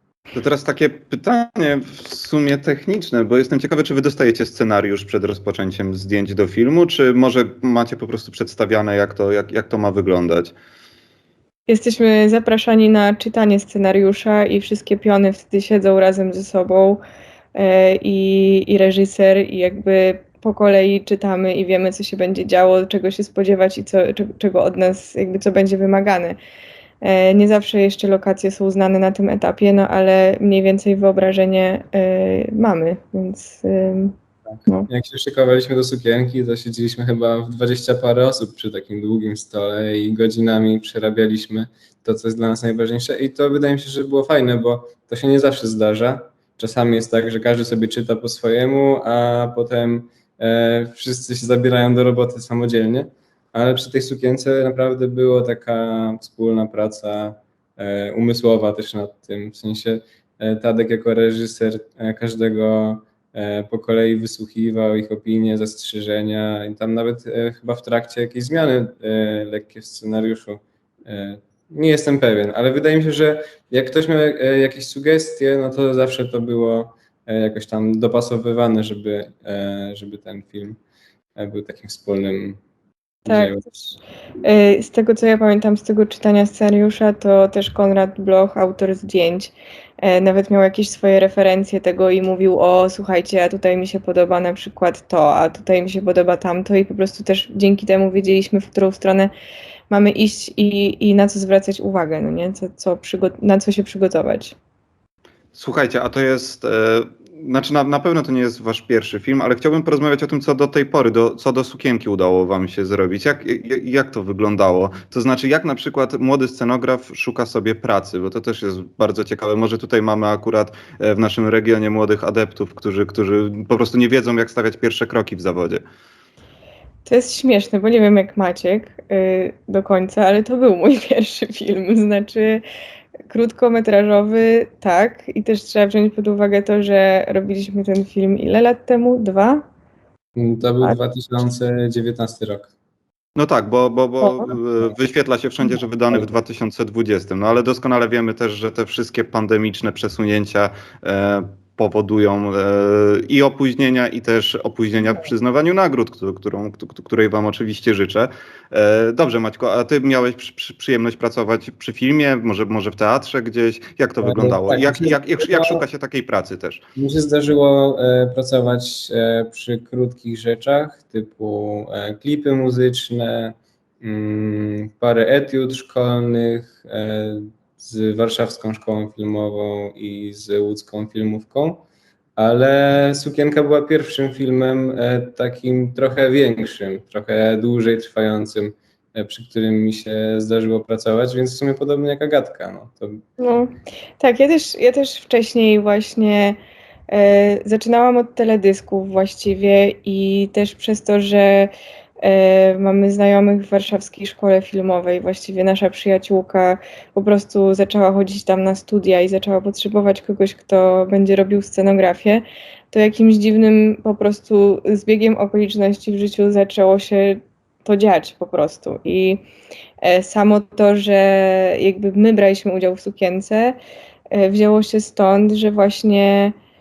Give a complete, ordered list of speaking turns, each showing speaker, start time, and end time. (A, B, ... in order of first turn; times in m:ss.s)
0:00.3-0:10.5 A
0:11.7-0:17.0 B
0:17.6-0:26.4 B
0:27.0-0:34.2 B
0:34.9-1:20.8 C
1:21.4-1:22.6 C
1:23.2-1:23.9 B
1:23.3-1:23.7 C
1:24.4-1:39.3 B
1:39.9-1:44.6 B
1:45.6-2:05.8 A
2:07.1-2:12.6 B
2:13.3-2:19.6 B
2:20.4-2:22.7 C
2:23.4-2:46.8 A
2:24.2-2:24.5 B
2:44.2-2:45.8 C
2:47.0-3:13.2 C
3:13.4-3:16.6 B
3:17.1-3:39.4 B
3:40.0-3:43.8 B
3:44.3-3:46.6 B